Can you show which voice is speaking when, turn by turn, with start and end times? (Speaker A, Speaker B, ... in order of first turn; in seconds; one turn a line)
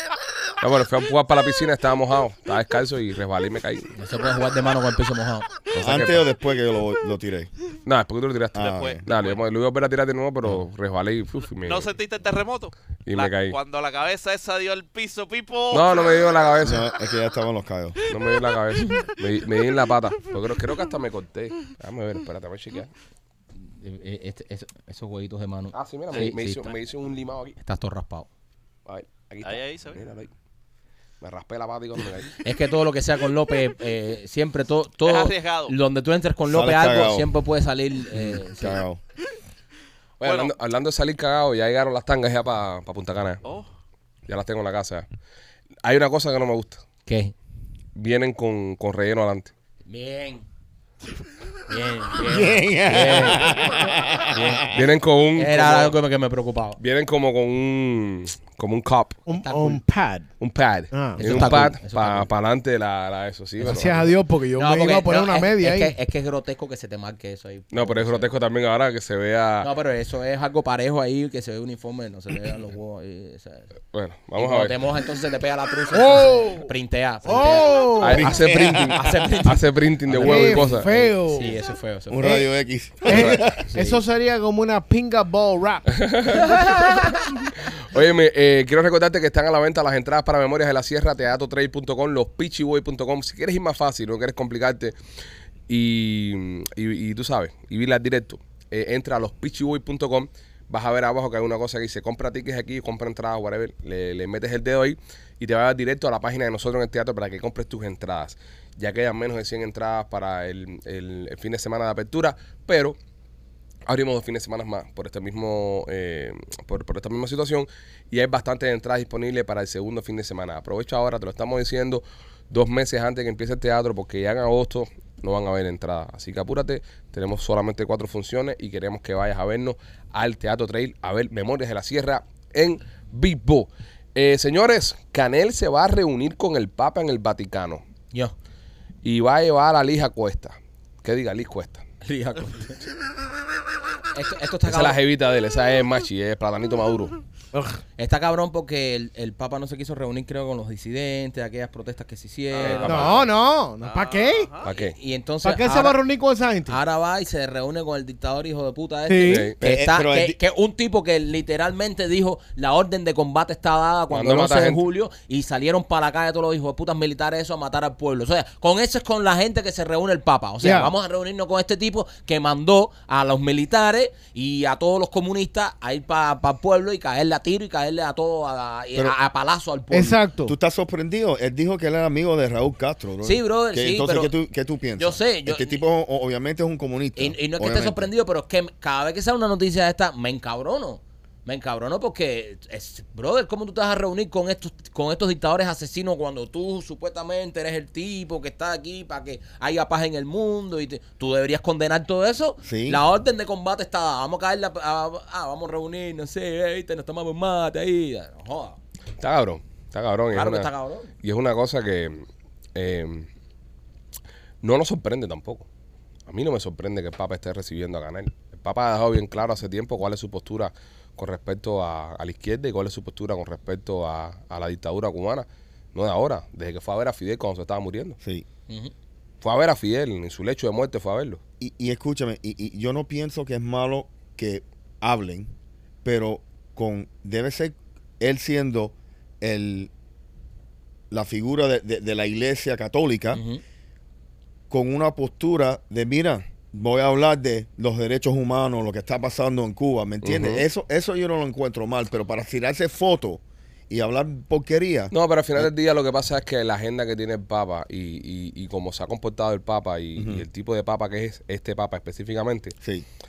Speaker A: 0.6-3.9
Speaker B: 3.9-5.5
Speaker A: 5.7-6.2
Speaker C: 5.8-7.5
Speaker A: 7.8-11.9
Speaker C: 8.5-9.0
Speaker D: 8.6-9.5
Speaker D: 11.6-16.3
Speaker A: 13.1-13.5
Speaker A: 15.7-16.9
Speaker C: 16.6-18.0
Speaker A: 18.1-22.9
Speaker B: 23.6-26.7
Speaker A: 25.7-27.6
Speaker B: 27.6-28.3
Speaker A: 28.9-30.3
Speaker D: 29.4-30.0
Speaker A: 31.2-32.3
Speaker B: 32.4-38.8
Speaker D: 35.0-35.7
Speaker C: 36.5-37.3
Speaker C: 38.1-39.0
Speaker A: 40.2-43.4
Speaker D: 40.2-40.5
Speaker A: 44.3-45.0
Speaker A: 45.8-46.8
Speaker B: 47.0-47.3
Speaker A: 47.9-49.5
Speaker B: 49.9-50.4
Speaker B: 51.6-54.7
Speaker C: 52.1-54.9
Speaker A: 54.7-56.0
Speaker B: 55.3-56.8
Speaker A: 56.8-59.2
Speaker E: 59.3-60.3
Speaker B: 59.3-59.8
Speaker A: 60.4-64.1
Speaker E: 60.9-61.5
Speaker B: 61.1-62.3
Speaker B: 63.6-63.9
Speaker E: 63.6-65.9
Speaker B: 64.5-68.3
Speaker A: 67.7-69.7
Speaker B: 69.6-73.7
Speaker A: 73.9-74.7
Speaker B: 74.3-82.4
Speaker E: 75.9-76.7
Speaker E: 77.2-78.3
Speaker A: 78.0-80.9
Speaker C: 78.3-79.0
Speaker E: 80.2-81.5
Speaker C: 82.1-83.7
Speaker E: 83.0-86.8
Speaker B: 83.1-84.0
Speaker A: 86.0-87.0
Speaker B: 86.8-87.2
Speaker A: 87.7-95.0
Speaker A: 95.7-113.0
Speaker A: 113.9-137.8
Speaker A: 139.0-141.8
Speaker B: 142.0-142.8
Speaker B: 144.1-145.0
Speaker A: 144.7-147.2
Speaker E: 147.5-147.8
Speaker B: 148.0-153.2
Speaker D: 152.5-153.2
Speaker A: 152.6-153.3
Speaker E: 152.8-154.5
Speaker D: 153.8-154.7
Speaker A: 154.6-154.9
Speaker B: 154.7-156.0
Speaker E: 155.4-156.8
Speaker B: 156.7-180.2
Speaker E: 159.1-159.5
Speaker A: 159.2-159.6
Speaker C: 159.6-160.4
Speaker A: 164.1-164.8
Speaker E: 170.6-170.9
Speaker E: 179.9-180.5
Speaker C: 180.4-188.1
Speaker B: 183.2-184.3
Speaker B: 185.0-185.8
Speaker B: 187.2-208.8
Speaker C: 202.6-203.0
Speaker A: 209.2-210.7
Speaker B: 210.3-211.1
Speaker A: 211.2-213.3
Speaker A: 214.6-215.7
Speaker A: 216.3-228.2
Speaker C: 228.2-228.4
Speaker A: 229.4-231.4
Speaker C: 231.6-235.5
Speaker C: 236.0-239.9
Speaker C: 241.1-243.4
Speaker B: 243.3-243.6
Speaker C: 244.7-255.7
Speaker A: 250.2-250.6
Speaker A: 255.1-262.7
Speaker C: 260.1-260.4